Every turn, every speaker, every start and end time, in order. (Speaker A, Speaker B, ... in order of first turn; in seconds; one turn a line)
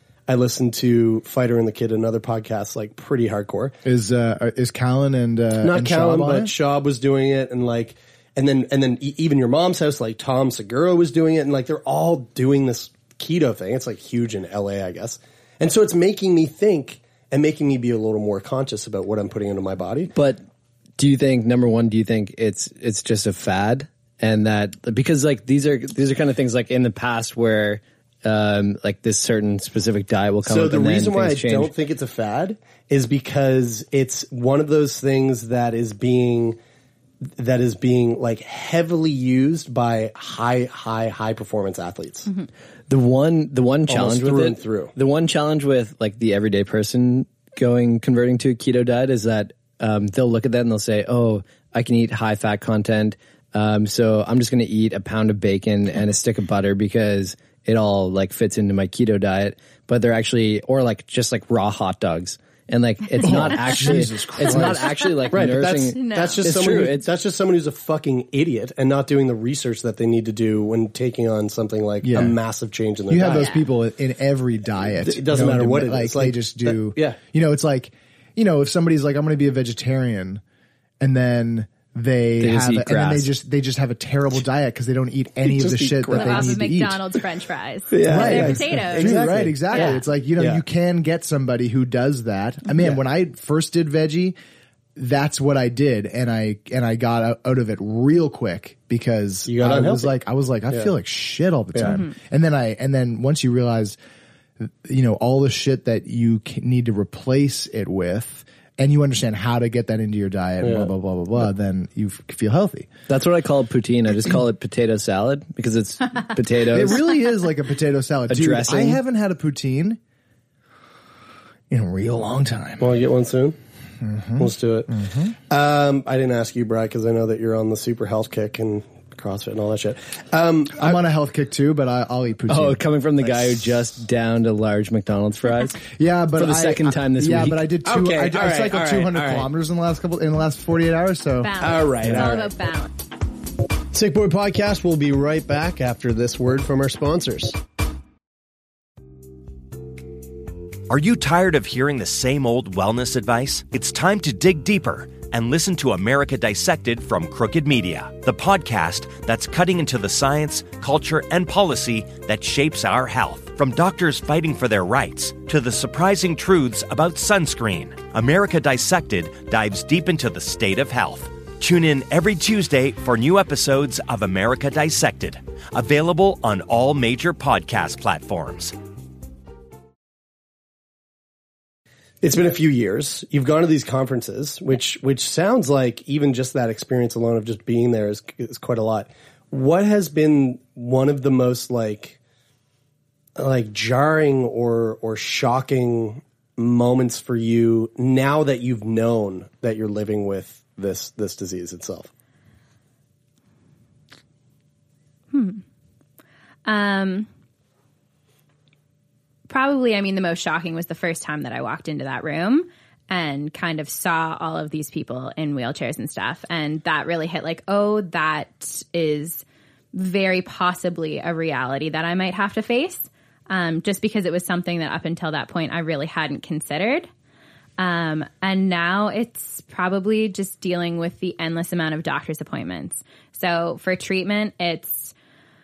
Speaker A: 0.3-3.8
Speaker B: 3.9-6.5
Speaker A: 5.6-20.1
Speaker C: 20.1-20.4
Speaker C: 21.0-31.7
Speaker A: 30.4-36.6
Speaker A: 37.3-42.3
Speaker C: 42.9-67.1
Speaker A: 43.9-44.9
Speaker D: 63.1-64.0
Speaker B: 63.2-65.0
Speaker A: 65.3-73.5
Speaker D: 65.9-66.4
Speaker B: 72.0-72.4
Speaker B: 73.1-80.4
Speaker D: 73.3-73.7
Speaker A: 74.8-77.2
Speaker B: 81.0-87.0
Speaker C: 82.4-83.3
Speaker A: 85.5-86.6
Speaker D: 86.1-90.0
Speaker A: 87.9-90.6
Speaker B: 87.9-94.4
Speaker A: 92.8-93.0
Speaker B: 95.0-104.0
Speaker A: 99.5-100.1
Speaker A: 101.7-102.0
Speaker B: 104.6-112.9
Speaker A: 110.6-110.9
Speaker C: 113.1-117.1
Speaker B: 116.7-120.0
Speaker C: 118.3-119.0
Speaker B: 121.7-123.0
Speaker A: 122.8-123.6
Speaker B: 124.0-125.3
Speaker A: 124.4-131.0
Speaker B: 130.8-132.8
Speaker C: 132.5-135.8
Speaker B: 135.9-142.3
Speaker C: 136.4-137.7
Speaker A: 137.8-139.5
Speaker D: 141.4-142.9
Speaker A: 141.6-142.5
Speaker A: 143.9-147.6
Speaker E: 150.9-178.8
Speaker A: 182.2-192.2
Speaker A: 193.4-202.1
Speaker D: 205.3-205.6
Speaker D: 206.7-207.3
Speaker D: 209.5-227.1
Speaker D: 227.8-235.1